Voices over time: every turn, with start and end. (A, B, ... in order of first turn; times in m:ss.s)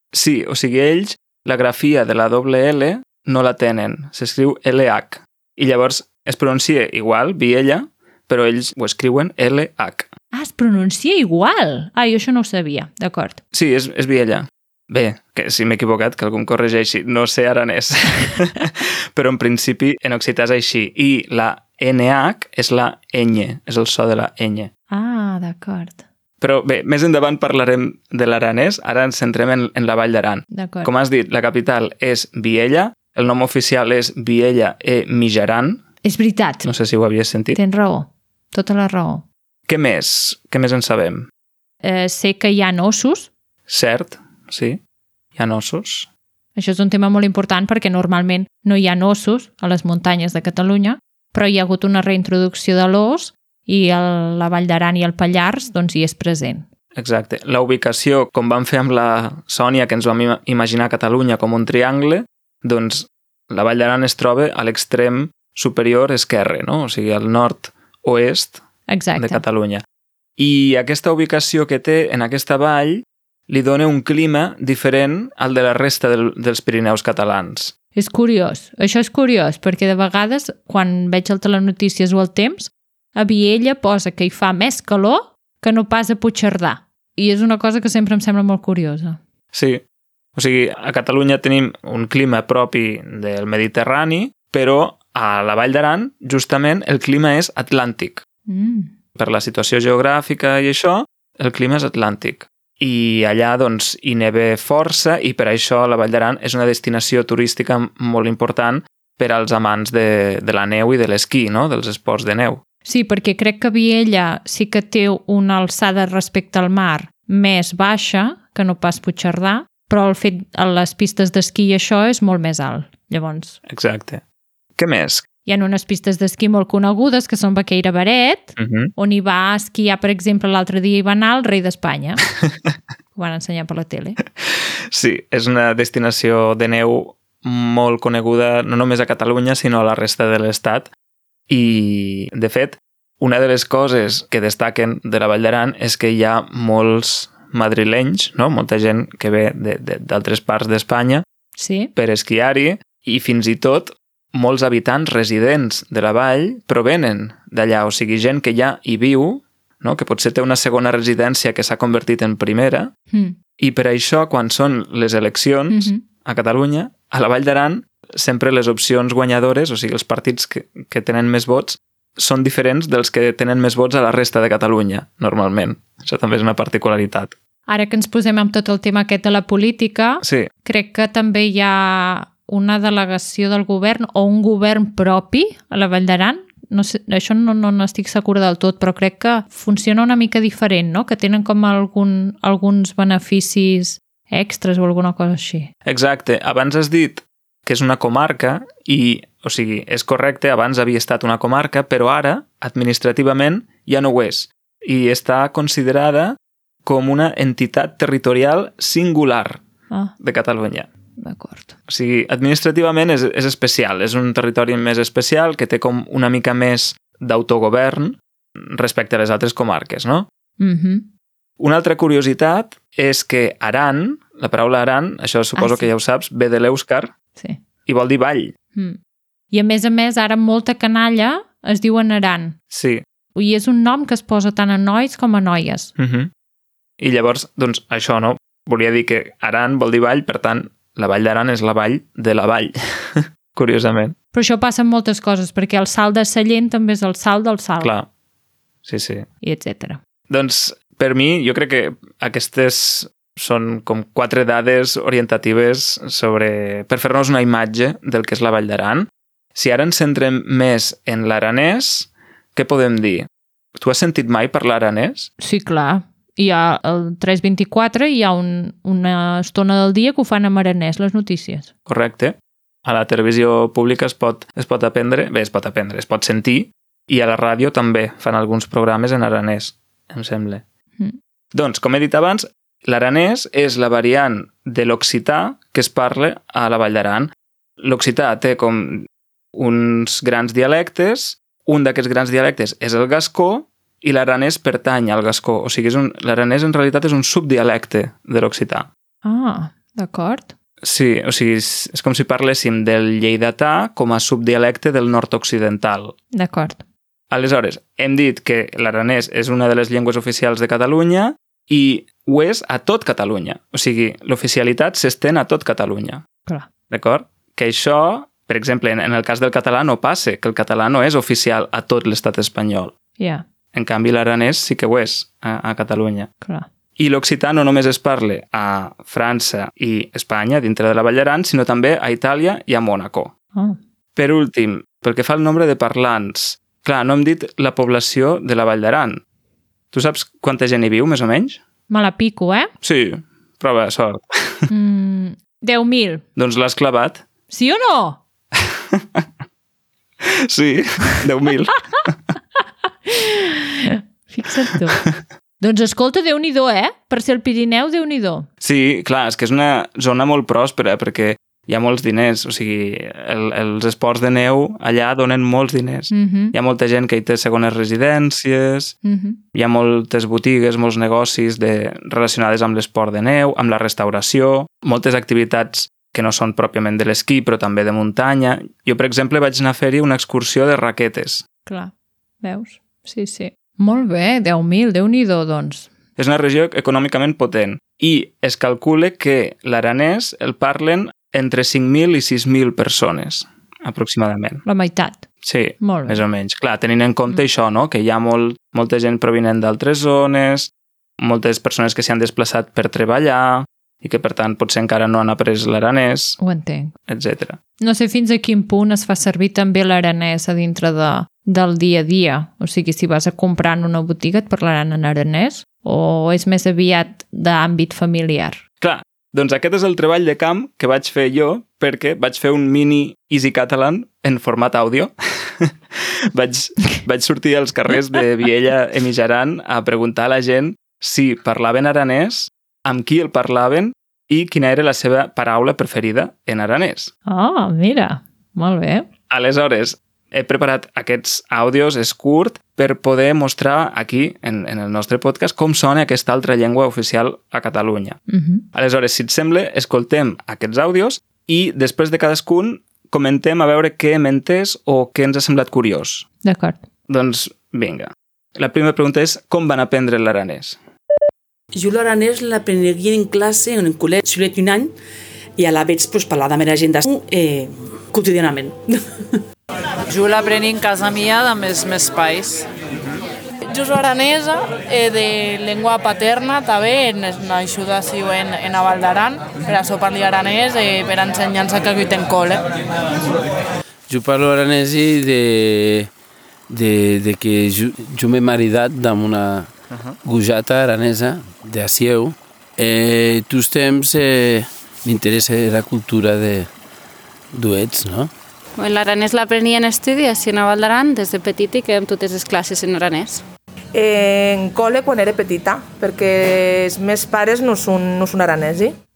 0:00.1-0:10.1 A
0:10.3-0:13.4 B
0:13.5-0:24.7 A
0:24.9-0:26.0 B
0:26.4-0:35.8 A
0:30.5-0:30.9 B
0:36.0-0:36.7 B
0:36.6-0:37.6 A
0:37.5-0:39.2 B
0:39.7-0:41.3 A
0:41.8-0:43.3 B
0:43.7-0:44.8 A
0:45.4-0:46.1 A
0:46.6-0:56.6 B
0:57.0-1:08.6 A
1:08.9-1:09.4 B
1:09.2-1:09.8 A
1:10.4-1:17.7 A
1:17.9-1:29.2 B
1:29.5-1:29.8 A
1:30.4-1:38.2 A
1:38.5-1:38.9 B
1:39.2-1:52.6 A
1:52.8-2:03.6 B
2:03.7-2:04.2 A
2:04.8-2:05.2 A
2:05.4-2:12.2 B
2:08.6-2:08.9 A
2:13.1-2:14.2 B
2:14.9-2:20.9 A
2:21.5-2:31.2 A
2:31.6-2:31.9 B
2:32.0-2:42.9 A
2:43.1-2:43.4 B
2:43.6-2:57.3 A
2:45.7-2:46.0 B
2:57.7-3:15.7 B
3:00.2-3:00.5 A
3:15.8-3:29.6 A
3:30.2-3:30.9 A
3:31.2-3:31.7 B
3:31.9-3:40.3 A
3:40.6-3:41.1 B
3:41.6-3:47.1 A
3:45.6-3:45.9 B
3:47.4-3:47.6 B
3:47.8-3:48.5 A
3:49.5-3:52.6 B
3:52.7-3:53.0 A
3:53.4-3:55.9 B
3:56.0-3:56.3 A
3:57.0-4:04.1 A
4:04.3-4:07.9 B
4:07.8-4:08.1 A
4:08.8-4:09.2 A
4:09.4-4:10.0 B
4:10.3-4:25.3 A
4:25.4-4:31.7 B
4:31.9-4:40.6 A
4:41.5-4:58.9 A
4:59.2-5:00.5 B
5:00.8-5:06.1 A
5:06.3-5:06.8 B
5:07.3-5:16.2 A
5:16.9-5:22.9 A
5:23.2-5:23.4 B
5:23.7-5:26.3 A
5:26.4-5:26.7 B
5:27.0-5:33.3 A
5:34.1-5:39.2 A
5:39.9-5:41.6 A
5:41.9-5:42.7 B
5:42.8-5:44.7 A
5:44.7-5:46.2 B
5:46.4-5:47.2 A
5:47.5-5:48.2 B
5:48.9-5:49.2 A
5:50.2-5:52.1 A
5:53.1-5:55.0 B
5:55.6-5:58.5 B
5:58.6-6:08.9 A
6:06.1-6:06.5 B
6:09.0-6:09.4 B
6:09.5-6:21.4 A
6:21.6-6:25.9 B
6:26.2-6:34.6 A
6:34.6-6:35.2 B
6:35.4-6:46.4 A
6:35.8-6:36.2 B
6:46.4-6:46.9 B
6:47.1-6:47.6 A
6:47.8-6:58.6 B
6:58.8-7:17.1 A
7:17.3-7:19.1 B
7:19.3-7:28.2 A
7:28.3-7:28.6 B
7:28.7-7:36.2 A
7:36.4-7:36.8 B
7:37.1-7:40.8 A
7:41.7-7:44.9 C
7:45.6-7:48.9 C
7:50.1-7:52.7 D
7:53.7-8:02.6 E
8:04.1-8:06.1 F
8:06.7-8:09.7 F
8:10.2-8:16.7 F
8:17.5-8:18.3 F
8:18.8-8:23.4 G
8:23.9-8:28.9 H